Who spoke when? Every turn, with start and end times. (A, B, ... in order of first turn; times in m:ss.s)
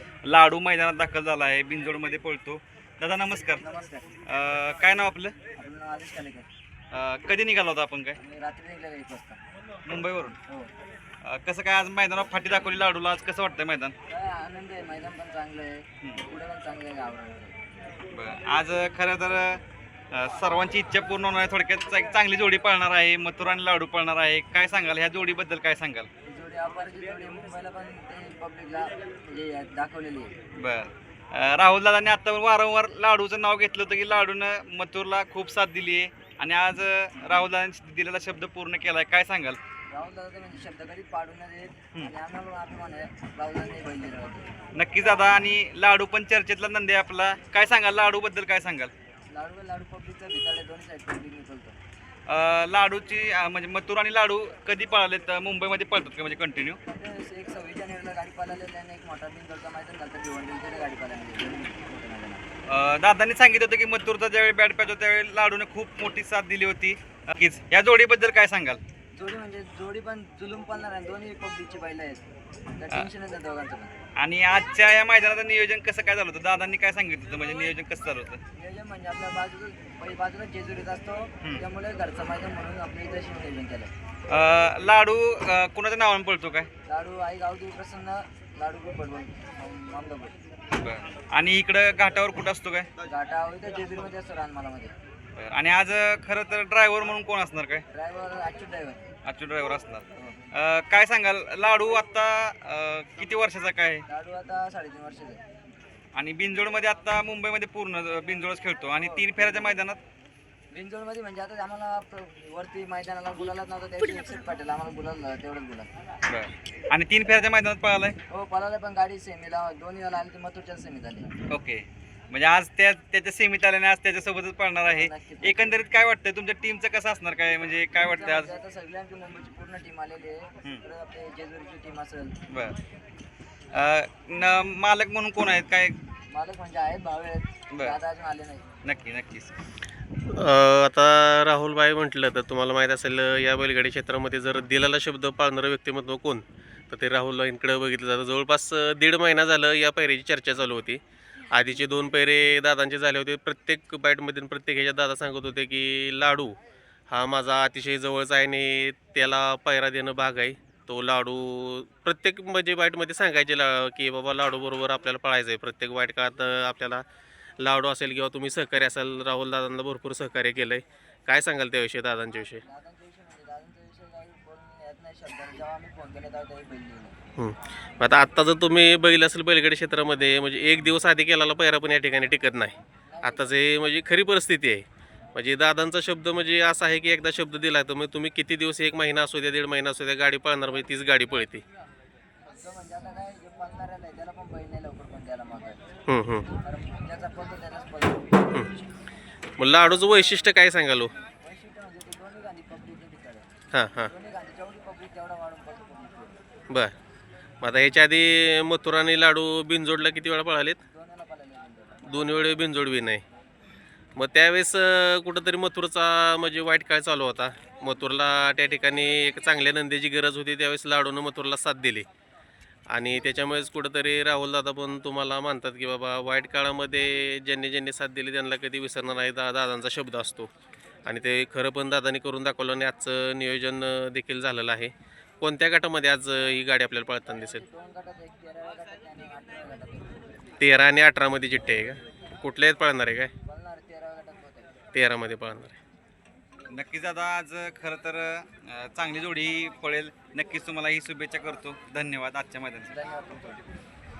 0:00.2-0:03.6 A
0:03.6-0:04.1 B
0:04.2-0:05.4 A
0:05.6-0:06.5 B
0:06.9-0:08.2 A
0:08.2-0:09.4 B
0:09.8-0:10.4 A
0:11.2-0:14.0 A
0:14.1-0:17.6 B
0:16.0-0:16.2 A
0:18.1-0:26.1 A
0:26.2-0:30.3 B
0:30.6-0:39.6 A
0:39.9-0:44.5 B
0:44.7-0:48.9 A
0:49.3-0:51.8 B
0:52.3-0:56.8 A
0:56.9-1:02.4 B
1:02.7-1:08.8 A
1:09.1-1:12.2 B
1:12.8-1:14.0 B
1:14.2-1:18.4 A
1:18.5-1:23.9 B
1:24.3-1:26.7 A
1:26.9-1:30.4 B
1:30.7-1:32.9 A
1:33.0-1:34.9 B
1:35.4-1:37.8 A
1:37.9-1:39.0 B
1:39.2-1:44.0 A
1:44.1-1:45.4 B
1:46.1-1:50.0 A
1:49.0-1:49.7 B
1:50.7-1:55.9 B
1:56.3-1:58.2 A
1:58.3-2:01.3 B
2:01.5-2:08.5 A
2:04.9-2:05.8 B
2:08.0-2:12.3 B
2:12.5-2:12.8 A
2:13.7-2:16.0 A
2:16.3-2:18.6 B
2:17.7-2:18.0 A
2:18.8-2:19.5 A
2:20.3-2:36.5 C
2:37.1-2:47.0 C
2:47.6-2:52.6 C
2:52.5-2:57.2 B
2:57.4-3:11.6 C
3:03.1-3:03.6 B
3:12.5-3:15.8 B
3:16.1-3:16.5 C
3:16.6-3:18.5 B
3:19.6-3:21.1 C
3:20.0-3:20.4 B
3:21.4-3:23.4 B
3:23.7-3:24.1 C
3:24.0-3:26.4 B
3:27.6-3:30.8 C
3:30.9-3:32.2 B
3:32.0-3:33.2 C
3:34.2-3:42.0 C
3:42.9-3:50.5 C
3:51.0-3:57.6 C
3:57.2-4:00.6 B
4:00.6-4:03.3 C
4:03.4-4:04.7 B
4:04.9-4:05.8 C
4:06.7-4:12.9 A
4:12.9-4:13.6 B